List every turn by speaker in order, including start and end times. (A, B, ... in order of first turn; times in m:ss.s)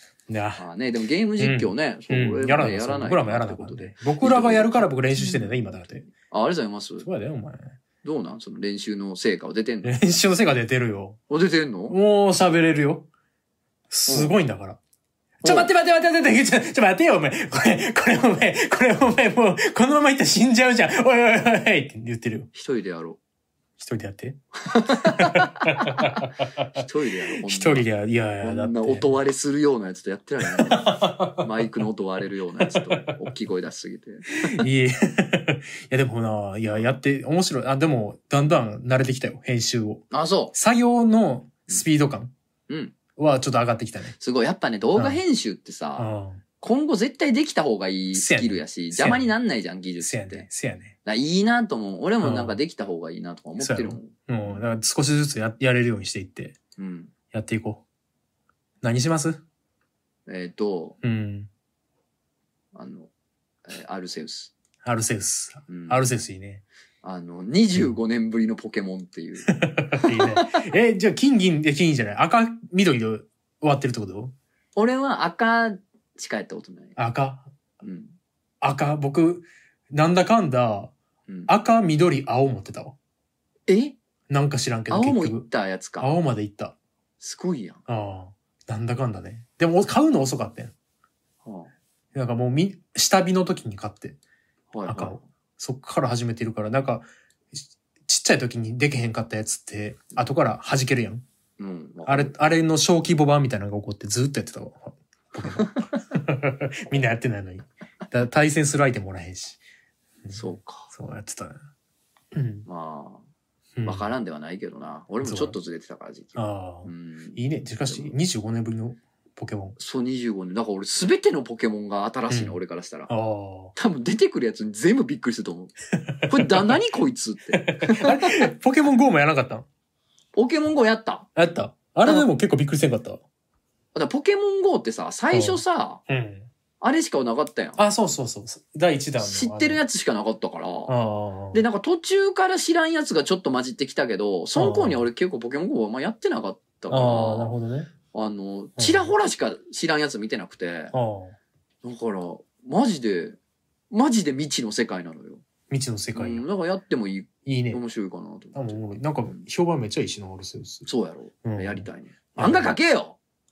0:00.3-0:00.6 A
0:00.6-0:07.1 B
0:01.4-0:06.1 A
0:07.0-0:07.8 A
0:08.0-0:10.0 B
0:09.8-0:11.2 A
0:11.3-0:12.0 B
0:11.9-0:13.1 A
0:13.9-0:14.8 A
0:14.1-0:14.4 B
0:15.4-0:22.5 A
0:15.4-0:15.7 B
0:22.5-0:23.2 B
0:23.8-0:24.4 A
0:24.7-0:26.0 B
0:25.2-0:26.8 A
0:26.7-0:27.9 B
0:27.4-0:29.1 A
0:28.4-0:34.6 B
0:30.4-0:31.7 A
0:32.6-0:33.1 A
0:34.5-0:42.3 A
0:40.1-0:40.6 B
0:42.7-0:43.0 B
0:43.2-0:44.2 A
0:44.2-0:50.5 B
0:45.0-0:45.2 A
0:46.0-0:46.4 A
0:48.1-0:49.3 A
0:50.0-0:51.0 A
0:51.0-0:54.6 B
0:52.2-0:52.6 A
0:53.6-0:56.6 A
0:56.8-0:57.1 B
0:57.3-0:57.8 A
0:58.8-0:59.4 A
1:00.3-1:01.0 B
1:01.0-1:01.5 A
1:02.7-1:03.1 B
1:03.7-1:04.5 B
1:04.8-1:06.6 A
1:05.7-1:06.1 B
1:07.0-1:10.4 B
1:09.5-1:14.3 A
1:14.8-1:17.0 B
1:17.0-1:17.5 A
1:17.8-1:18.2 B
1:18.6-1:20.9 A
1:21.5-1:23.0 A
1:23.7-1:24.0 B
1:24.3-1:25.5 A
1:24.9-1:26.1 B
1:26.0-1:26.8 A
1:27.2-1:27.8 B
1:27.9-1:30.7 A
1:31.4-1:31.7 B
1:32.1-1:34.2 A
1:34.7-1:35.3 B
1:34.8-1:41.2 A
1:41.6-1:42.4 B
1:42.1-1:49.6 A
1:50.2-1:51.6 A
1:50.3-1:50.9 B
1:52.3-1:52.7 A
1:52.7-1:53.3 B
1:53.8-1:54.1 A
1:53.8-1:58.1 B
1:55.2-1:55.6 A
1:56.4-1:59.8 A
1:59.8-2:03.1 B
2:02.3-2:02.6 A
2:03.1-2:03.7 A
2:03.8-2:05.8 B
2:06.0-2:06.3 A
2:06.3-2:08.5 B
2:07.5-2:09.7 A
2:10.4-2:11.3 B
2:11.4-2:13.2 A
2:13.9-2:16.0 B
2:15.3-2:16.5 A
2:16.8-2:17.8 B
2:17.8-2:19.8 A
2:19.2-2:20.9 B
2:20.9-2:21.6 A
2:21.5-2:27.6 B
2:24.6-2:25.1 A
2:26.9-2:27.9 A
2:28.1-2:30.9 B
2:28.8-2:29.1 A
2:30.9-2:31.4 A
2:31.8-2:33.4 B
2:33.9-2:35.4 B
2:35.7-2:36.4 A
2:36.1-2:39.4 B
2:37.5-2:37.8 A
2:38.6-2:40.9 A
2:40.9-2:43.2 B
2:41.4-2:41.9 A
2:42.4-2:42.8 A